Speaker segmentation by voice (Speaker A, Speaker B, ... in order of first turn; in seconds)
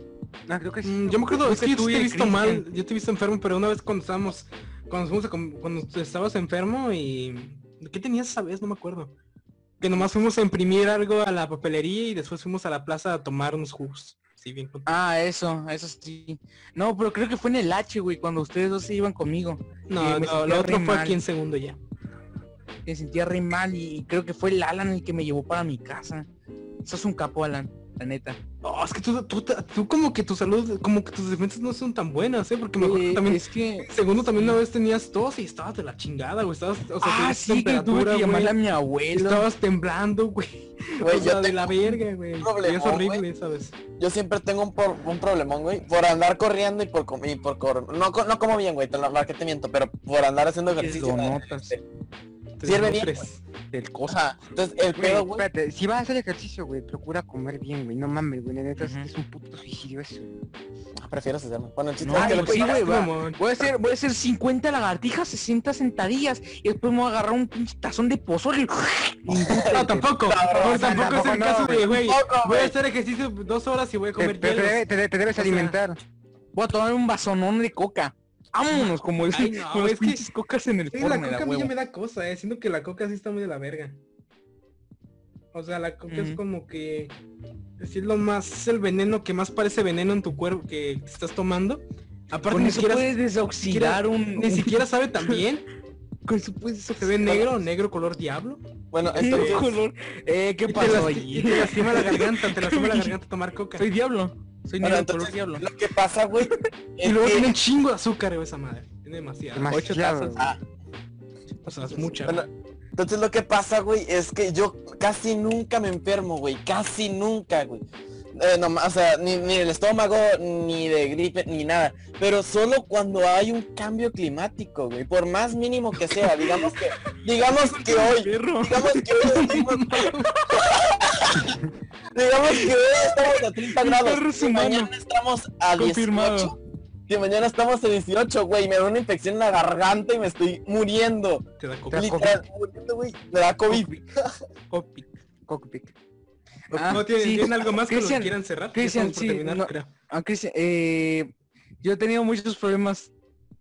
Speaker A: 0.5-1.4, 55.0-60.5, 70.5-71.9, 74.2-76.0, 109.5-110.5, 141.9-142.4, 145.5-145.9
Speaker B: 0.8-9.1, 9.8-14.9, 19.9-21.8, 28.6-38.5, 39.1-43.8, 52.6-53.4, 62.1-63.4, 69.6-75.8, 78.7-80.2, 80.9-84.0, 85.5-87.2, 87.8-95.6, 97.0-99.6, 100.7-103.9, 107.0-109.9, 111.6-112.5, 129.2-130.3, 141.6-142.2, 144.7-145.0, 146.7-149.9
Speaker C: 1.4-2.6, 14.8-21.2, 22.9-26.3, 26.8-28.4, 32.8-34.6, 37.0-39.5, 50.7-51.8, 53.7-54.2, 58.8-59.1, 62.0-70.1, 76.5-81.7, 86.1-86.4, 92.5-95.4, 96.3-97.4, 99.2-103.2, 103.8-105.7, 109.7-110.5, 111.6-112.1, 127.5-129.2, 133.2-134.9, 135.7-136.5, 143.7-143.9, 146.7-151.3, 151.8-153.1
Speaker D: 41.0-41.7, 42.4-43.2, 44.0-51.8, 52.6-53.2, 54.1-55.5, 61.0-62.9, 69.3-71.2, 71.8-72.7, 98.9-99.7, 104.8-107.5, 112.2-131.6, 132.1-136.6, 137.1-144.2